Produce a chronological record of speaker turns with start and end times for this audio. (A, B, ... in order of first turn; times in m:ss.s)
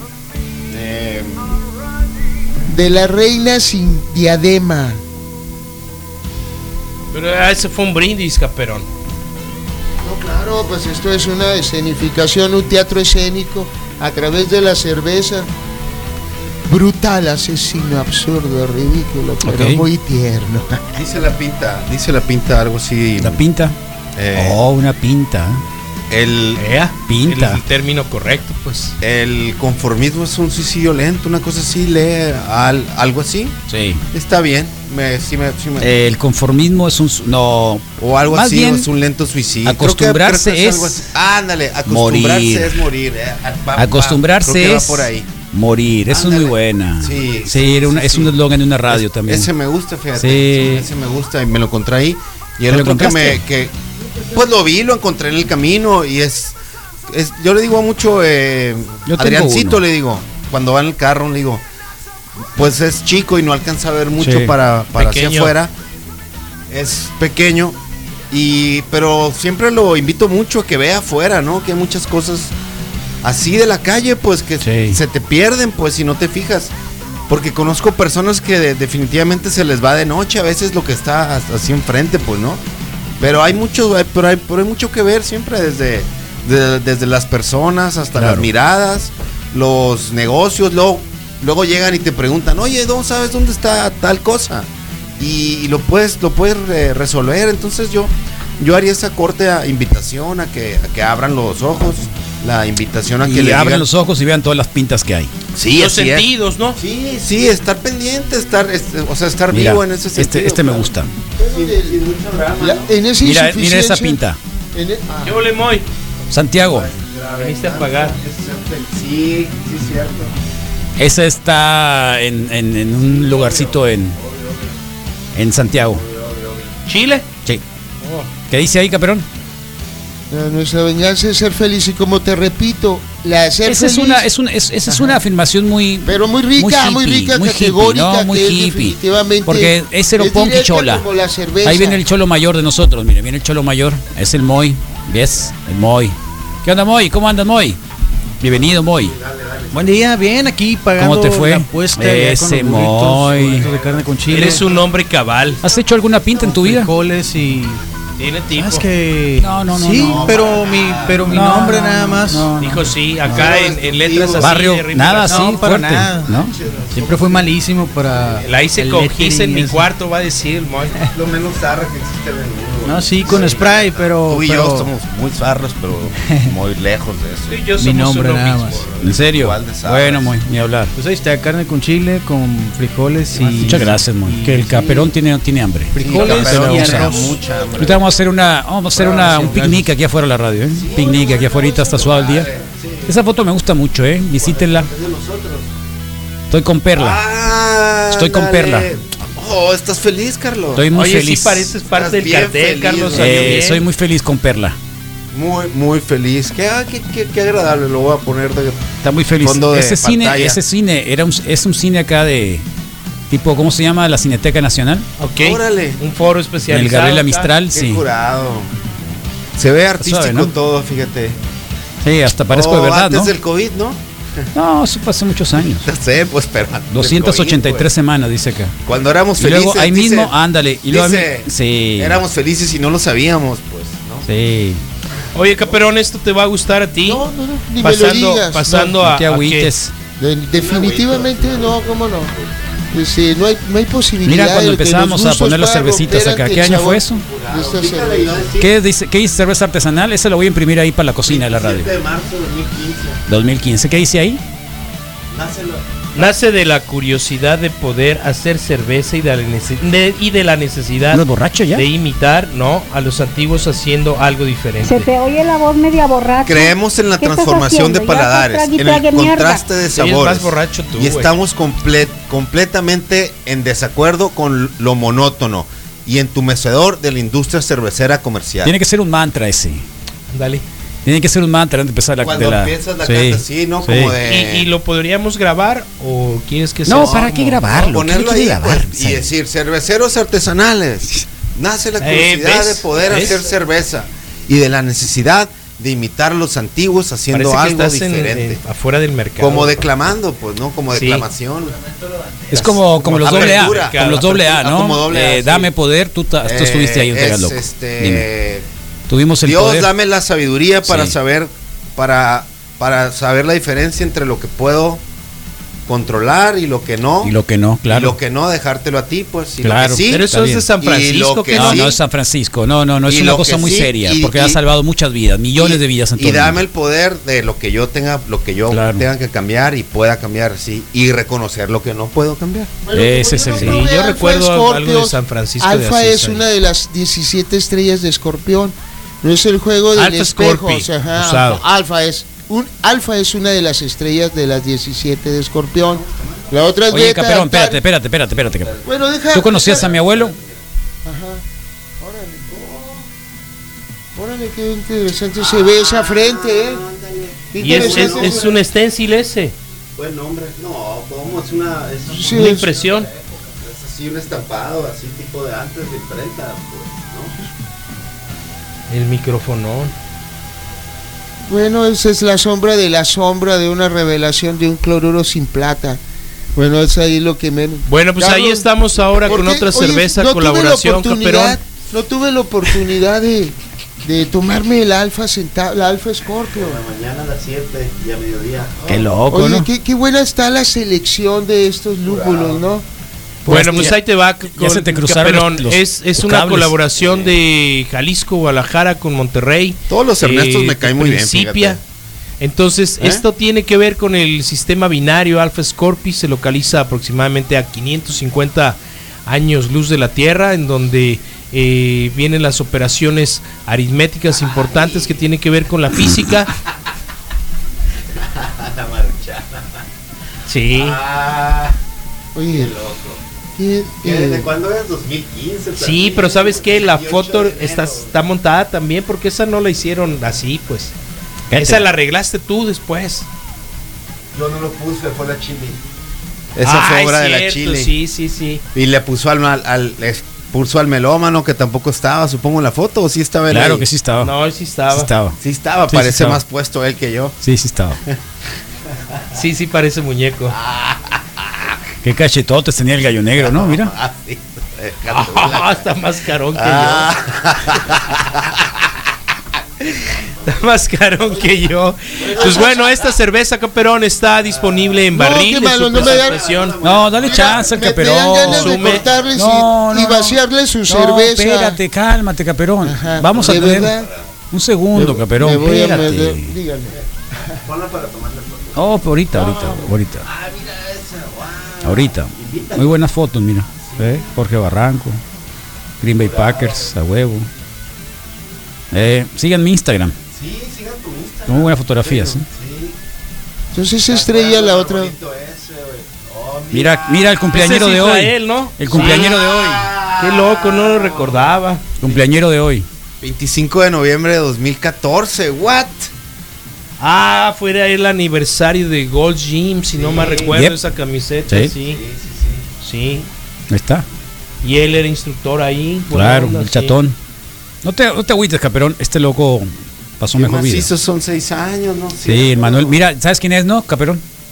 0:00.7-0:01.6 A
0:02.7-0:05.0 B
0:07.1-0:08.9 C
0:10.0-0:15.5 B
0:16.7-0:21.0 B
0:19.4-0:19.8 D
0:21.0-0:23.4 A
0:23.2-0:23.8 D
0:24.2-0:24.6 A
0:24.3-0:25.6 D
0:26.1-0:26.6 A
0:26.6-0:29.0 C
0:27.1-0:27.6 D
0:29.0-0:33.6 A
0:33.7-0:34.0 D
0:34.1-0:35.9 A
0:35.8-0:38.9 D
0:38.0-0:45.3 A
0:39.6-0:41.1 D
0:41.9-0:42.8 D
0:43.8-0:49.5 D
0:46.1-0:48.4 A
0:48.9-0:53.8 A
0:50.2-0:50.9 D
0:52.7-0:53.4 D
0:54.3-0:56.6 A
0:57.1-1:01.6 A
0:59.1-0:59.8 D
1:02.6-1:05.7 A
1:04.2-1:04.5 D
1:05.0-1:05.6 C
1:06.7-1:07.8 A
1:08.3-1:12.5 A
1:13.2-1:16.7 A
1:14.6-1:15.0 D
1:17.3-1:22.6 A
1:23.2-1:43.9 A
1:28.1-1:28.5 D
1:43.2-1:45.3 D
1:45.5-1:53.0 A
1:45.7-1:46.8 C
1:49.5-1:51.1 D
1:51.4-1:52.0 B
1:52.6-1:54.2 B
1:53.2-1:54.4 D
1:54.7-1:55.5 B
1:55.2-1:55.9 C
1:56.3-1:56.9 D
1:56.6-2:00.3 A
1:57.4-1:58.2 C
2:01.0-2:04.2 D
2:03.0-2:04.8 A
2:05.4-2:06.0 D
2:05.9-2:06.8 A
2:06.9-2:07.3 C
2:08.0-2:08.3 C
2:08.5-2:09.2 D
2:10.3-2:14.3 B
2:13.6-2:21.0 D
2:14.9-2:15.2 B
2:16.1-2:22.0 B
2:21.6-2:27.8 D
2:28.4-2:29.1 D
2:28.4-2:30.1 A
2:29.7-2:34.6 E
2:31.0-2:33.7 D
2:33.1-2:34.9 A
2:34.3-2:35.6 C
2:35.5-2:36.6 A
2:35.6-2:36.9 D
2:36.4-2:37.8 E
2:38.2-2:38.9 C
2:38.5-2:42.8 E
2:39.4-2:40.4 D
2:39.9-2:41.8 A
2:41.3-2:43.4 D
2:42.6-2:45.6 C
2:43.2-2:44.6 A
2:44.4-2:46.5 D
2:45.3-2:46.3 E
2:45.5-2:48.7 A
2:46.9-2:49.9 E
2:48.4-2:50.9 C
2:51.1-2:57.6 A
2:52.8-2:54.9 E
2:53.3-2:53.6 C
2:56.2-2:56.5 E
2:57.5-2:59.0 C
2:57.8-2:58.9 E
2:59.0-3:00.4 A
2:59.0-3:00.9 D
3:01.0-3:05.1 E
3:03.3-3:03.9 A
3:03.6-3:12.5 D
3:06.0-3:07.4 E
3:06.0-3:08.1 A
3:09.0-3:09.9 E
3:09.0-3:09.8 A
3:10.7-3:13.2 A
3:13.1-3:14.9 D
3:14.4-3:15.7 A
3:16.5-3:17.2 D
3:16.9-3:20.9 A
3:18.1-3:18.9 D
3:20.8-3:21.7 D
3:20.9-3:23.9 C
3:21.9-3:23.7 A
3:23.1-3:24.8 D
3:25.3-3:30.6 A
3:29.0-3:32.6 D
3:33.3-3:35.1 D
3:35.2-3:37.5 C
3:35.4-3:36.0 A
3:36.7-3:38.0 D
3:37.7-3:38.7 A
3:39.6-3:41.4 A
3:40.0-3:40.5 D
3:42.0-3:43.3 D
3:42.5-3:44.4 A
3:44.6-3:45.9 D
3:45.6-3:47.9 A
3:46.9-3:48.8 D
3:48.8-3:50.4 A
3:49.4-3:52.2 D
3:50.9-3:54.3 A
3:54.3-3:54.8 D
3:55.3-3:57.2 C
3:57.0-3:59.0 B
3:57.8-3:59.8 C
3:59.0-3:59.9 D
4:00.2-4:02.3 B
4:00.5-4:02.7 A
4:02.9-4:08.5 B
4:04.2-4:07.2 D
4:06.8-4:08.7 A
4:08.6-4:11.9 D
4:11.2-4:13.2 A
4:13.3-4:14.4 D
4:15.3-4:16.3 A
4:16.2-4:25.1 C
4:21.1-4:21.9 D
4:24.8-4:29.7 F
4:26.4-4:38.7 A
4:29.9-4:31.3 C
4:38.6-4:39.8 D
4:40.3-4:40.6 C
4:41.0-4:44.2 D
4:42.2-4:44.7 A
4:44.2-4:47.6 C
4:46.9-4:49.3 D
4:46.9-4:58.6 A
4:52.0-4:53.4 C
4:57.3-4:59.9 C
4:59.4-5:05.7 A
5:00.9-5:01.3 C
5:02.5-5:08.3 D
5:03.1-5:04.4 C
5:06.4-5:08.7 A
5:09.1-5:09.9 D
5:09.4-5:15.0 A
5:10.8-5:11.2 D
5:15.9-5:17.4 A
5:17.2-5:18.2 D
5:17.9-5:22.0 A
5:19.6-5:20.7 D
5:20.1-5:21.9 C
5:21.5-5:26.7 D
5:23.1-5:24.6 A
5:25.6-5:32.7 A
5:28.7-5:29.0 D
5:32.8-5:47.8 B
5:32.9-5:33.8 D
5:33.6-5:36.4 C
5:40.0-5:41.6 C
5:45.9-5:46.8 A
5:46.9-5:48.7 D
5:48.5-5:48.9 A
5:48.8-5:49.9 B
5:49.3-5:50.4 D
5:49.4-5:50.6 A
5:51.0-5:51.4 B
5:52.0-5:52.5 B
5:52.5-5:53.1 A
5:54.2-5:56.8 B
5:55.4-5:58.6 A
5:57.5-5:58.6 B
5:57.6-5:59.6 C
6:00.0-6:02.6 A
6:02.1-6:02.7 B
6:02.3-6:03.1 C
6:03.5-6:07.4 A
6:08.9-6:09.9 C
6:11.4-6:16.0 B
6:16.6-6:26.8 B
6:17.9-6:21.6 C
6:26.5-6:29.1 A
6:28.9-6:29.7 D
6:29.3-6:32.9 B
6:32.1-6:32.6 A
6:33.5-6:34.0 D
6:33.5-6:41.8 C
6:34.5-6:36.7 D
6:37.0-6:37.4 A
6:39.9-6:41.8 A
6:42.4-6:56.5 C
6:54.3-6:55.3 A
6:58.2-6:59.8 A
7:00.5-7:01.0 C
7:00.7-7:01.8 A
7:02.4-7:02.8 B
7:02.5-7:03.2 A
7:03.6-7:04.5 B
7:04.0-7:08.1 A
7:05.8-7:10.9 C
7:11.5-7:11.9 D
7:11.5-7:13.3 C
7:14.3-7:15.8 A
7:16.6-7:17.9 A
7:16.6-7:18.6 C
7:18.7-7:23.9 A
7:23.5-7:24.3 D
7:24.2-7:25.1 C
7:24.9-7:26.4 D
7:25.4-7:27.4 A
7:27.4-7:28.0 D
7:29.3-7:30.6 C
7:30.5-7:31.8 A
7:32.0-7:33.9 D
7:33.4-7:35.9 A
7:35.1-7:37.1 C
7:36.5-7:38.7 A
7:40.5-7:46.8 C
7:42.2-7:43.0 A
7:42.4-7:42.7 B
7:44.5-7:45.0 A
7:45.1-7:46.5 B
7:45.9-7:47.8 A
7:46.8-7:53.9 D
7:47.2-7:51.8 B
7:48.4-7:49.0 C
7:48.7-7:49.2 A
7:52.8-7:54.1 B
7:53.2-7:54.3 A
7:54.5-7:56.6 D
7:54.9-7:57.0 B
7:56.9-8:03.0 A
7:58.8-8:00.3 D
8:01.8-8:05.2 D
8:03.8-8:04.3 A
8:06.0-8:07.5 D
8:06.2-8:06.9 A
8:08.9-8:10.2 D
8:10.3-8:13.0 A
8:11.5-8:12.5 D
8:13.7-8:15.2 B
8:14.1-8:17.4 A
8:16.7-8:19.8 D
8:17.5-8:19.4 C
8:18.9-8:21.6 A
8:20.2-8:21.8 C
8:22.0-8:22.9 D
8:23.2-8:26.1 A
8:27.0-8:32.0 C
8:29.9-8:30.6 A
8:30.5-8:30.8 D
8:31.5-8:31.7 D
8:31.8-8:32.7 A
8:32.8-8:33.3 C
8:33.7-8:34.1 D
8:34.6-8:37.0 C
8:36.1-8:37.2 D
8:37.8-8:40.9 D
8:40.3-8:43.0 A
8:42.2-8:44.2 D